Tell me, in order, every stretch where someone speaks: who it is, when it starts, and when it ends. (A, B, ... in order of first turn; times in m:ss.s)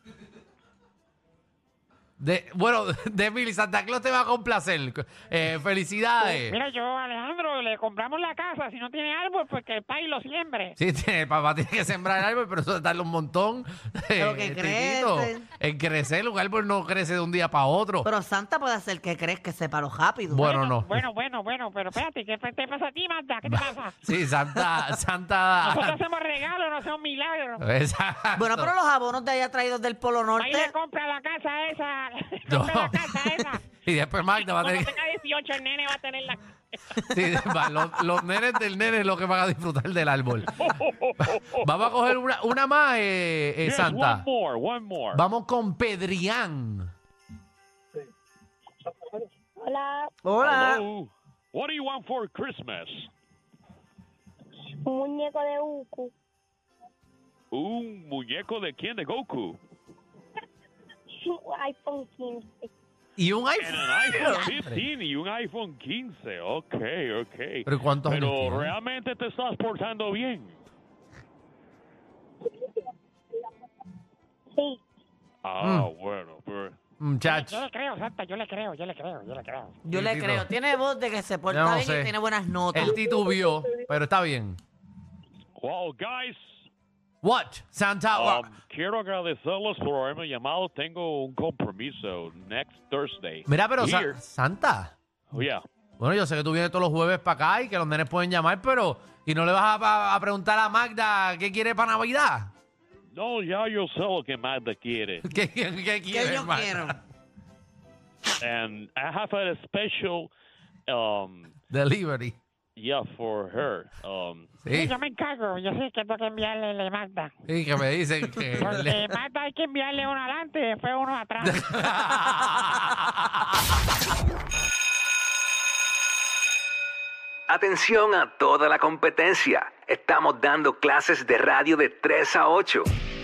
0:02.2-0:06.6 A
0:06.2-0:10.8 B
0:10.8-0:18.1 A
0:14.2-0:15.5 C
0:18.0-0:20.5 C
0:20.3-0:21.0 A
0:20.4-0:24.0 B
0:23.5-0:26.0 A
0:24.6-0:24.8 C
0:25.6-0:27.6 B
0:27.6-0:28.7 A
0:28.4-0:30.7 C
0:30.4-0:33.7 B
0:32.5-0:34.9 A
0:34.3-0:37.0 B
0:37.0-0:40.6 A
0:40.6-0:41.6 D
0:41.6-0:44.2 A
0:43.6-0:45.2 D
0:45.1-0:46.9 A
0:49.6-0:50.1 E
0:50.2-0:50.8 C
0:50.4-0:53.1 D
0:54.8-0:56.1 E
0:57.5-0:59.6 D
1:01.2-1:02.7 E
1:03.2-1:04.8 A
1:03.6-1:10.6 D
1:07.7-1:08.7 A
1:14.6-1:14.8 E
1:15.4-1:16.8 D
1:15.6-1:15.9 A
1:17.0-1:17.6 A
1:17.3-1:19.8 B
1:19.8-1:23.0 C
1:19.9-1:20.5 A
1:21.5-1:22.1 A
1:22.7-1:24.6 A
1:25.6-1:26.6 D
1:27.2-1:28.5 A
1:28.1-1:34.2 D
1:33.5-1:34.9 A
1:35.3-1:35.6 D
1:36.0-1:42.5 A
1:43.1-1:45.3 D
1:45.2-1:47.0 A
1:46.1-1:47.0 C
1:48.4-1:50.3 D
1:50.9-1:51.6 D
1:51.7-1:52.4 A
1:52.8-1:54.6 D
1:54.6-1:55.0 A
1:54.7-1:57.3 B
1:57.5-1:59.0 A
1:58.6-2:02.1 B
2:01.4-2:03.4 A
2:07.5-2:12.9 F